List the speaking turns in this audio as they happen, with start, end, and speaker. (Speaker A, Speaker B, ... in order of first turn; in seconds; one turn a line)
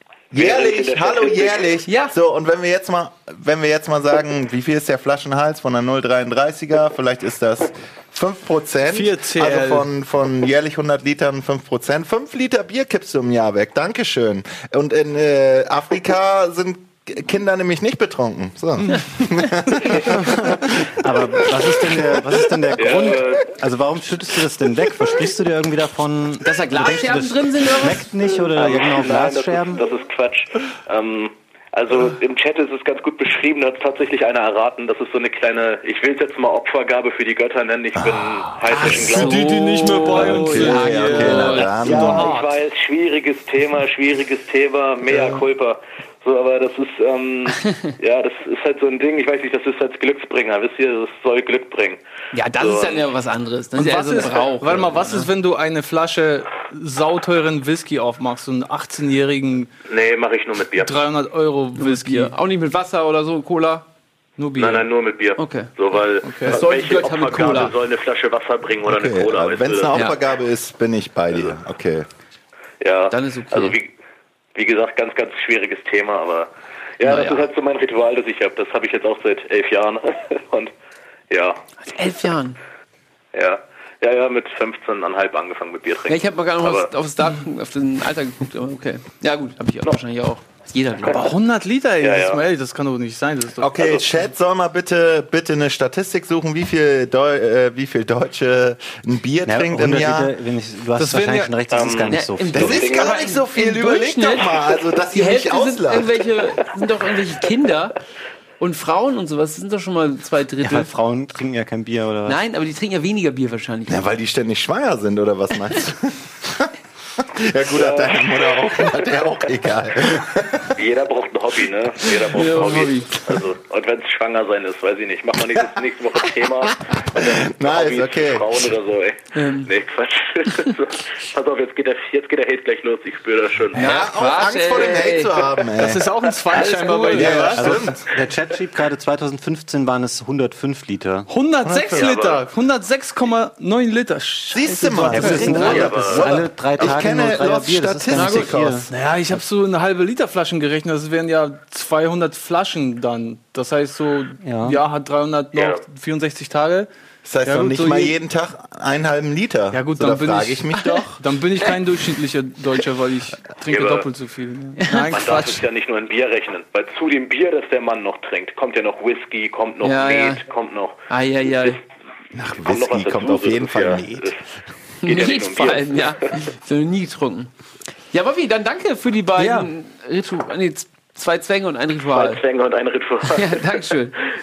Speaker A: 0.3-20.1
Speaker B: 0.3-1.6
Speaker C: 1.9-2.1
Speaker D: 8.9-9.9
Speaker E: 20.1-29.8
Speaker B: 22.8-23.5
Speaker C: 26.4-28.5
Speaker B: 28.5-39.4
Speaker A: 38.0-38.6
Speaker E: 38.7-39.0
Speaker C: 38.9-42.4
Speaker D: 39.1-42.4
Speaker A: 40.2-42.3
Speaker B: 41.8-52.0
Speaker C: 52.3-55.3
Speaker B: 52.5-53.0
Speaker D: 53.7-59.7
Speaker B: 59.9-61.0
Speaker D: 60.8-62.3
Speaker C: 61.8-63.8
Speaker D: 64.4-64.8
Speaker B: 64.5-70.1
Speaker C: 65.4-65.7
Speaker D: 66.2-66.6
Speaker C: 66.4-67.7
Speaker A: 68.8-72.1
Speaker B: 72.8-73.9
Speaker C: 73.1-73.8
Speaker B: 74.5-80.7
Speaker C: 77.0-77.5
Speaker B: 81.3-81.6
Speaker C: 81.8-82.6
Speaker B: 83.3-86.9
Speaker C: 86.1-91.3
Speaker B: 91.0-91.3
Speaker D: 91.1-93.7
Speaker B: 92.0-92.4
Speaker A: 93.6-100.3
Speaker E: 99.4-102.8
Speaker D: 101.0-101.5
Speaker B: 101.7-103.2
Speaker C: 102.1-107.9
Speaker A: 102.5-106.2
Speaker C: 108.6-110.9
Speaker E: 110.6-112.4
Speaker C: 112.2-114.1
Speaker A: 113.9-116.7
Speaker A: 117.3-120.8
Speaker B: 117.7-118.9
Speaker B: 120.8-133.9
Speaker C: 122.3-123.1
Speaker A: 126.7-128.7
Speaker C: 129.3-129.7
Speaker C: 133.7-135.4
Speaker A: 133.8-136.1
Speaker D: 135.8-137.9
Speaker C: 136.6-137.6
Speaker A: 137.1-137.9
Speaker E: 137.5-141.3
Speaker D: 141.3-145.9
Speaker A: 141.6-142.1
Speaker B: 141.9-142.4
Speaker A: 144.5-148.9
Speaker E: 145.0-148.9
Speaker C: 145.1-145.9
Speaker B: 145.7-146.2
Speaker C: 148.1-148.5
Speaker D: 148.9-156.9
Speaker E: 154.4-154.8
Speaker B: 155.5-155.8
Speaker A: 157.2-161.2
Speaker D: 157.4-158.2
Speaker D: 159.7-165.6
Speaker C: 160.7-161.0
Speaker B: 163.7-164.1
Speaker C: 164.8-165.1
Speaker B: 165.1-171.7
Speaker C: 169.8-170.4
Speaker C: 171.1-171.8
Speaker A: 172.3-174.3
Speaker B: 172.7-174.4
Speaker B: 175.0-176.2
Speaker C: 175.0-177.5
Speaker C: 178.1-182.4
Speaker B: 182.1-183.8
Speaker C: 183.3-184.2